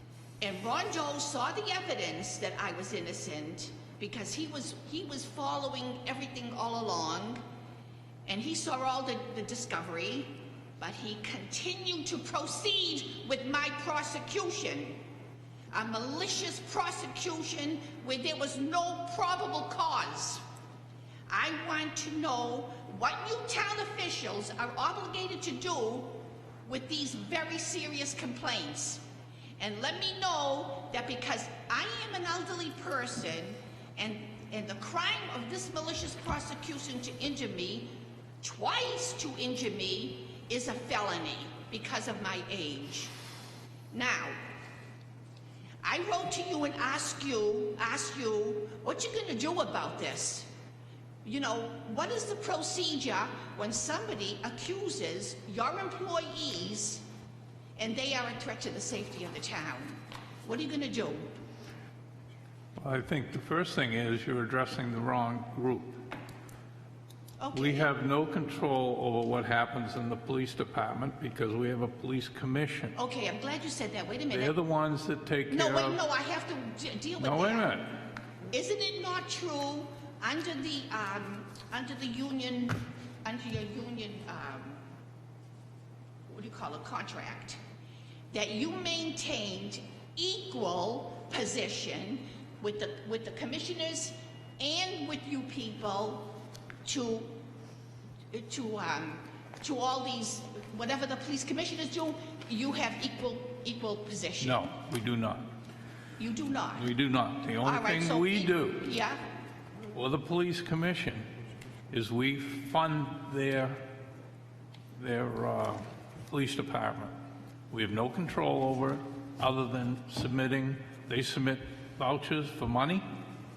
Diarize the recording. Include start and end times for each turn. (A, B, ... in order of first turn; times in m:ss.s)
0:00.4-0:07.4 A
0:08.2-0:15.0 A
0:15.7-0:20.4 A
0:21.3-0:29.0 A
0:29.6-0:43.1 A
0:43.9-0:44.4 A
0:45.8-0:50.5 A
0:51.2-0:57.0 A
0:57.8-1:01.3 A
1:02.8-1:06.0 B
1:07.4-1:07.9 A
1:07.5-1:13.0 B
1:12.9-1:14.6 A
1:14.3-1:16.0 B
1:15.5-1:17.8 A
1:17.2-1:18.0 B
1:18.5-1:24.8 A
1:26.3-1:27.6 A
1:28.3-1:36.3 A
1:36.8-1:37.4 A
1:38.3-1:44.7 A
1:44.4-1:45.5 B
1:46.2-1:46.9 A
1:46.8-1:48.9 B
1:47.6-1:49.2 A
1:49.9-1:51.3 B
1:51.9-1:53.8 B
1:55.0-1:57.2 B
1:57.7-2:03.0 B